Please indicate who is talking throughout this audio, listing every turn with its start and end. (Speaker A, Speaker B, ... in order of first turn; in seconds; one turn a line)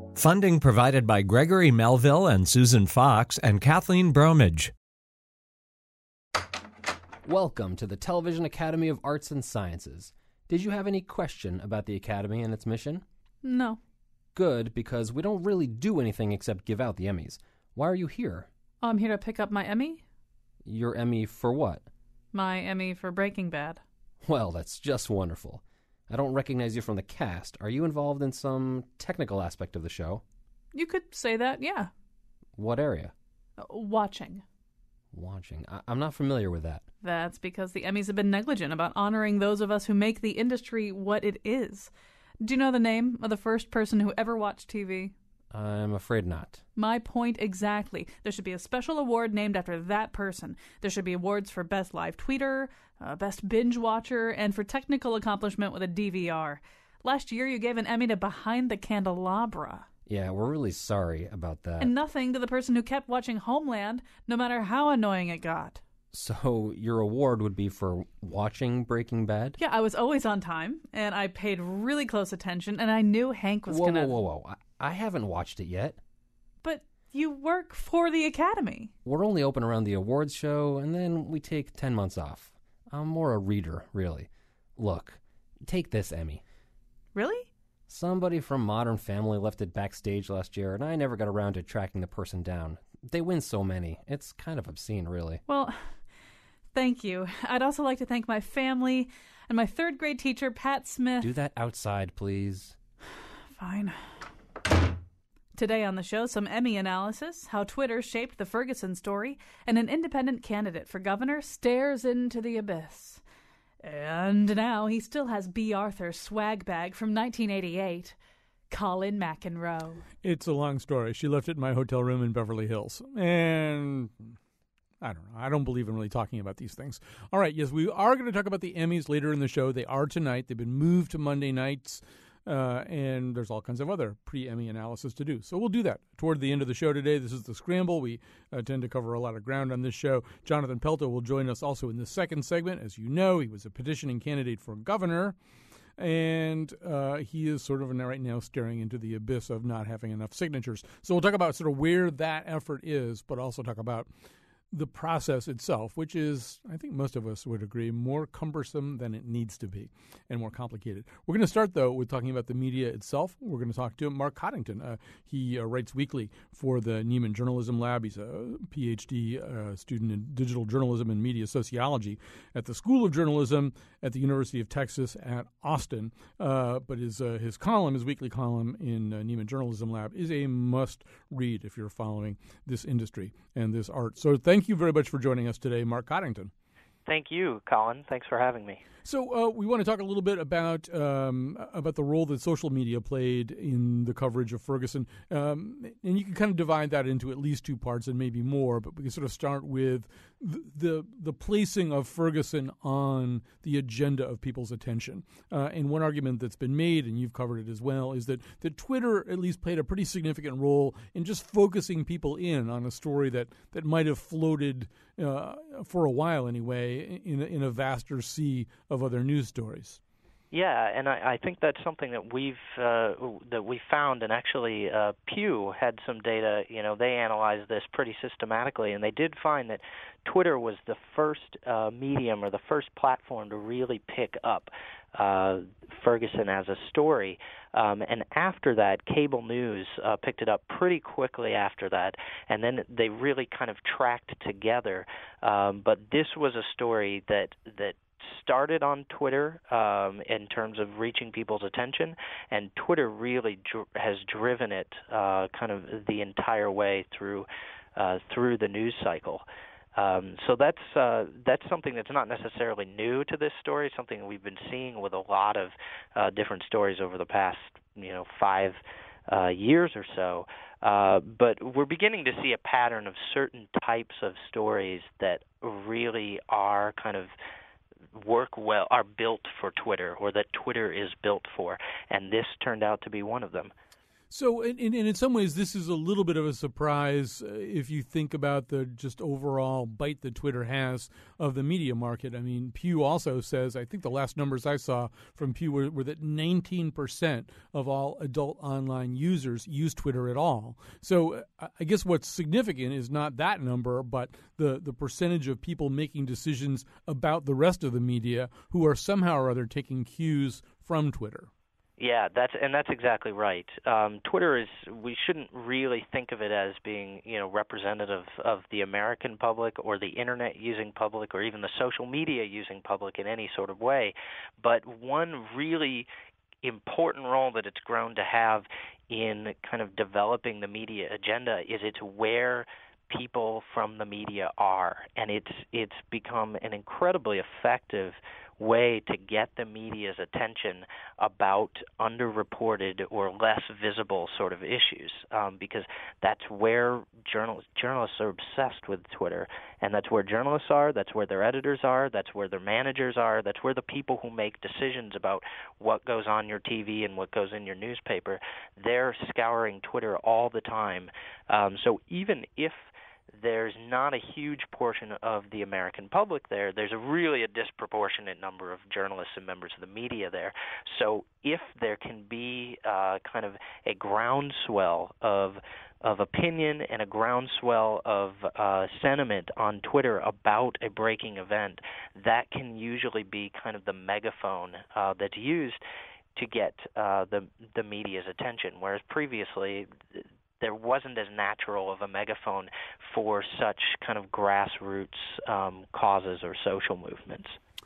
Speaker A: 0.1-4.7
Speaker B: 7.2-13.1
Speaker C: 13.4-13.8
Speaker B: 14.3-18.5
Speaker C: 18.8-20.0
Speaker B: 20.6-21.9
Speaker C: 22.3-23.8
Speaker B: 24.2-30.2
Speaker C: 30.7-31.9
Speaker B: 32.6-33.1
Speaker C: 33.6-34.4
Speaker B: 35.1-36.9
Speaker C: 37.0-45.1
Speaker B: 45.5-46.6
Speaker C: 46.8-59.9
Speaker B: 60.1-61.9
Speaker C: 61.8-65.8
Speaker B: 66.1-69.6
Speaker C: 69.6-74.1
Speaker B: 73.7-76.0
Speaker C: 76.6-78.9
Speaker B: 79.0-86.4
Speaker C: 87.2-87.5
Speaker B: 87.9-95.4
Speaker C: 95.5-96.0
Speaker C: 96.7-101.3
Speaker B: 101.2-102.8
Speaker C: 103.5-104.0
Speaker C: 105.5-113.2
Speaker C: 113.8-118.2
Speaker C: 118.7-120.0
Speaker D: 120.2-124.3
Speaker D: 125.0-145.3
Speaker D: 146.0-154.1
Speaker D: 154.7-186.5
Speaker E: 187.1-188.8
Speaker D: 189.1-220.0
Speaker E: 220.5-259.4
Speaker E: 260.0-277.3
Speaker E: 278.1-283.7
Speaker D: 284.3-311.5
Speaker E: 312.0-326.1
Speaker E: 326.6-385.8
Speaker E: 386.4-397.6